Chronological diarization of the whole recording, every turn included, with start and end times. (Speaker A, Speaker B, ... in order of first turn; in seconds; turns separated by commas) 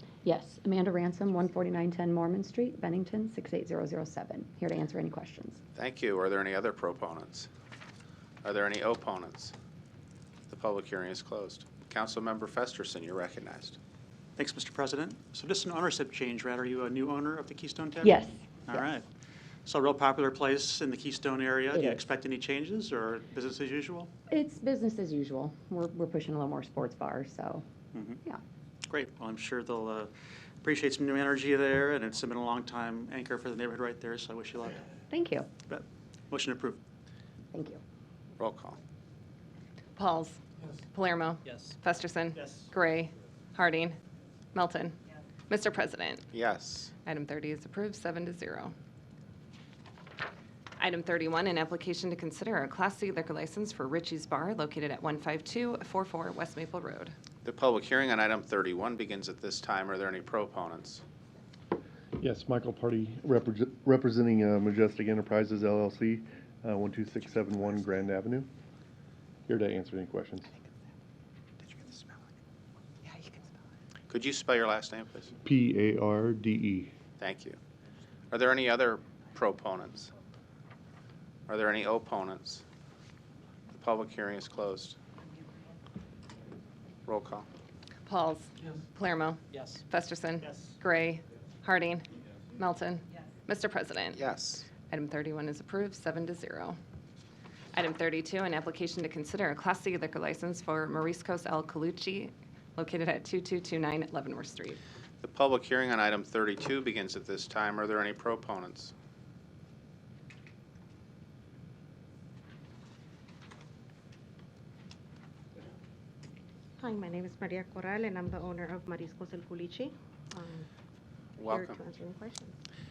Speaker A: 0.2-5.6, Speaker B: 5.8-7.5, Speaker B: 8.4-9.5, Speaker B: 10.5-13.8, Speaker C: 14.4-19.1, Speaker A: 18.0-18.4, Speaker C: 19.7-24.1, Speaker A: 24.3-27.6, Speaker C: 27.9-28.2, Speaker C: 28.9-30.1, Speaker C: 30.6-34.8, Speaker A: 35.1-35.5, Speaker C: 35.7-36.8, Speaker A: 37.5-37.8, Speaker B: 38.4-38.8, Speaker D: 40.0-40.4, Speaker D: 40.9-44.0, Speaker C: 42.4-42.7, Speaker D: 44.5-45.0, Speaker D: 45.5-46.3, Speaker B: 46.3-46.9, Speaker D: 47.1-48.7, Speaker D: 50.8-57.1, Speaker B: 57.4-61.0, Speaker E: 62.2-68.5, Speaker E: 69.5-70.5, Speaker B: 74.1-75.3, Speaker E: 75.4-76.9, Speaker B: 77.2-77.6, Speaker B: 78.3-80.1, Speaker B: 81.5-82.6, Speaker B: 83.7-85.0, Speaker B: 87.1-87.5, Speaker D: 88.1-94.2, Speaker C: 90.4-90.7, Speaker B: 94.2-94.7, Speaker D: 94.9-96.8, Speaker D: 97.7-104.8, Speaker B: 105.2-108.9, Speaker F: 116.8-120.7, Speaker B: 121.4-121.8, Speaker F: 121.4-122.5